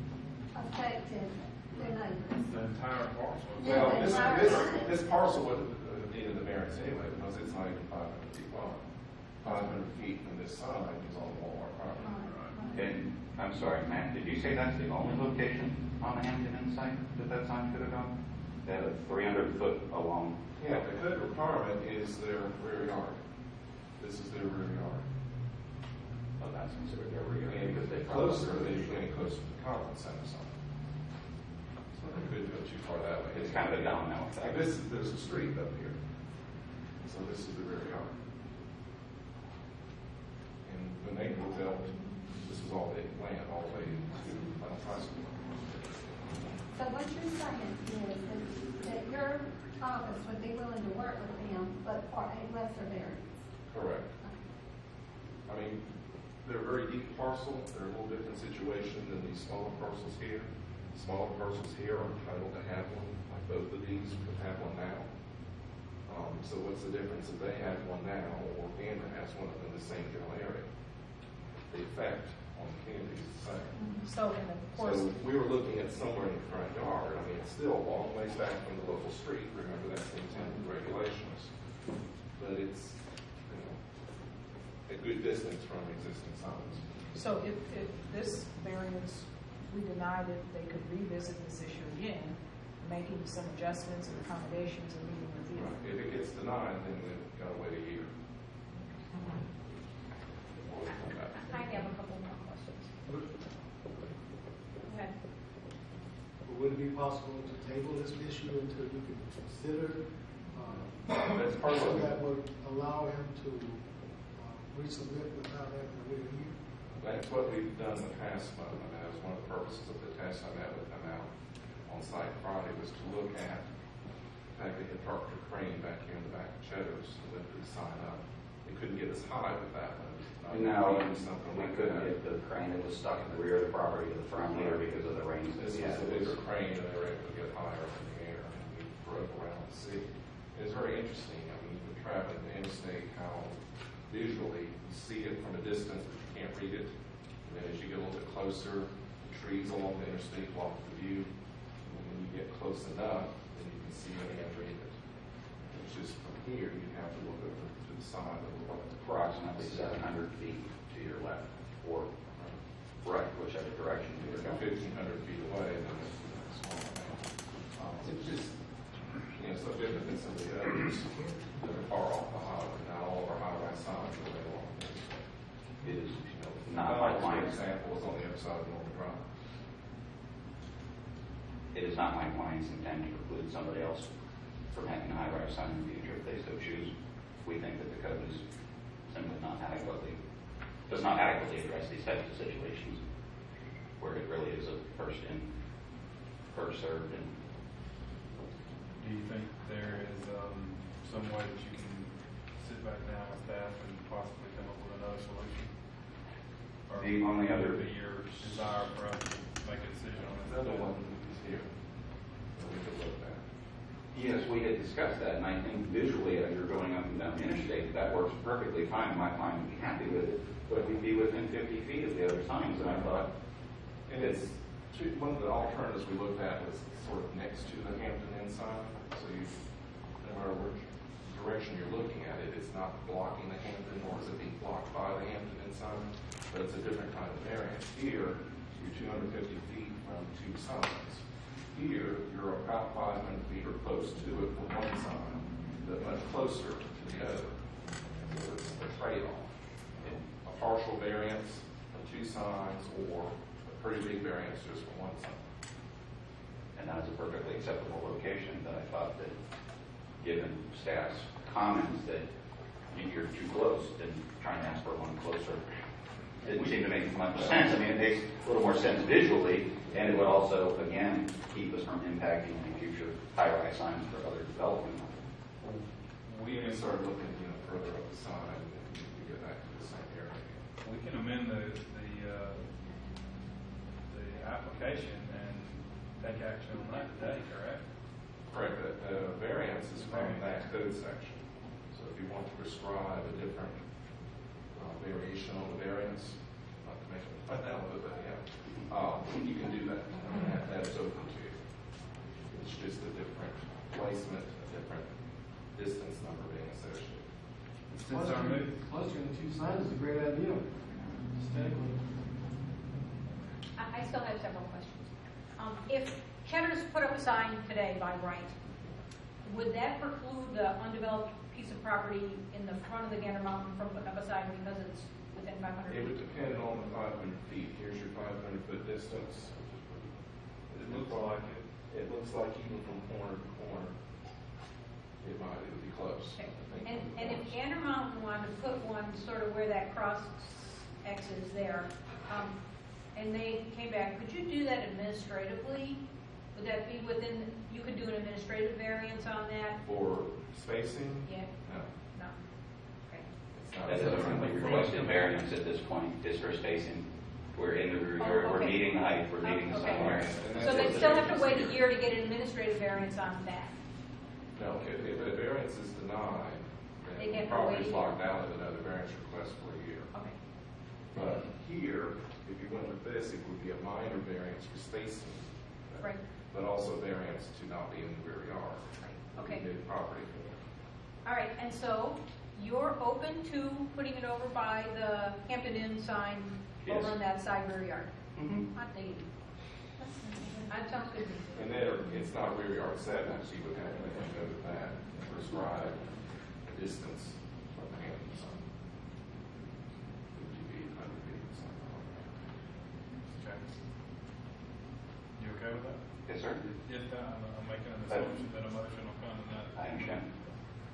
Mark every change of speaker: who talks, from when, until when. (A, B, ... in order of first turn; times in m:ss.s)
0:00.5-0:02.6 A
0:02.4-0:04.9 B
0:03.6-0:08.8 C
0:03.6-0:04.9 A
0:09.4-0:12.3 C
0:12.0-0:12.9 A
0:12.2-0:12.5 B
0:12.7-0:20.4 D
0:20.6-0:23.2 C
0:23.9-0:25.0 C
0:26.4-0:29.0 D
0:27.5-0:30.6 C
0:31.9-0:36.0 C
0:33.3-0:34.6 D
0:37.0-0:38.1 C
0:40.6-0:45.8 C
0:46.7-0:53.5 A
0:53.7-0:54.1 C
0:55.5-1:05.5 C
1:06.0-1:10.7 C
1:11.7-1:13.9 C
1:14.0-1:15.1 E
1:14.7-1:21.5 C
1:22.3-1:23.8 C
1:24.9-1:26.8 C
1:27.1-1:35.8 E
1:35.5-1:38.1 C
1:40.5-1:41.8 C
1:41.4-1:42.9 F
1:44.8-1:45.1 F
1:46.4-1:56.6 G
1:51.0-1:52.1 C
1:56.9-2:03.7 C
2:04.3-2:12.1 C
2:10.5-2:16.4 D
2:14.4-2:14.9 C
2:15.6-2:35.0 C
2:35.6-2:40.0 C
2:39.0-2:42.1 D
2:43.0-2:44.6 D
2:44.2-2:48.6 C
2:49.1-2:55.3 C
2:55.8-2:57.6 D
2:55.8-2:59.2 C
3:01.7-3:04.1 D
3:04.7-3:08.4 D
3:09.0-3:10.2 D
3:10.9-3:13.0 D
3:14.0-3:15.5 D
3:16.5-3:17.3 D
3:19.0-3:25.8 B
3:26.9-3:30.9 B
3:27.0-3:27.8 D
3:30.2-3:31.7 C
3:32.2-3:33.4 C
3:34.1-3:44.4 D
3:44.0-4:15.4 C
4:16.8-4:19.4 D
4:20.2-4:22.3 D
4:22.9-4:25.6 D
4:26.4-4:35.2 D
4:35.6-4:37.0 B
4:36.4-4:40.6 C
4:40.8-4:42.7 B
4:44.1-4:47.8 B
4:48.5-5:07.3 C
4:49.9-4:50.6 B
5:07.9-5:08.8 B
5:08.0-5:12.1 H
5:13.8-5:18.6 F
5:19.4-5:26.4 F
5:25.9-5:33.9 C
5:30.8-5:31.7 B
5:35.2-5:37.6 C
5:36.4-5:42.6 F
5:43.1-5:46.0 F
5:46.5-5:49.8 F
5:49.8-5:52.0 C
5:51.2-5:52.4 F
5:53.5-5:55.1 C
5:53.8-6:01.7 D
5:53.9-5:55.3 B
5:58.2-6:03.7 F
5:59.7-6:01.8 C
6:04.5-6:10.1 C
6:07.2-6:08.2 F
6:11.1-6:20.6 C
6:16.0-6:16.3 F
6:19.4-6:19.6 F
6:21.2-6:28.1 F
6:26.8-6:27.2 D
6:28.3-6:28.6 D
6:28.7-6:29.3 F
6:30.0-6:30.6 A
6:30.7-6:31.8 F
6:31.5-6:38.8 C
6:40.3-6:42.5 C
6:43.3-6:43.7 B
6:45.3-6:46.0 B
6:46.2-6:46.6 D
6:46.6-6:50.3 B
6:49.7-6:50.2 D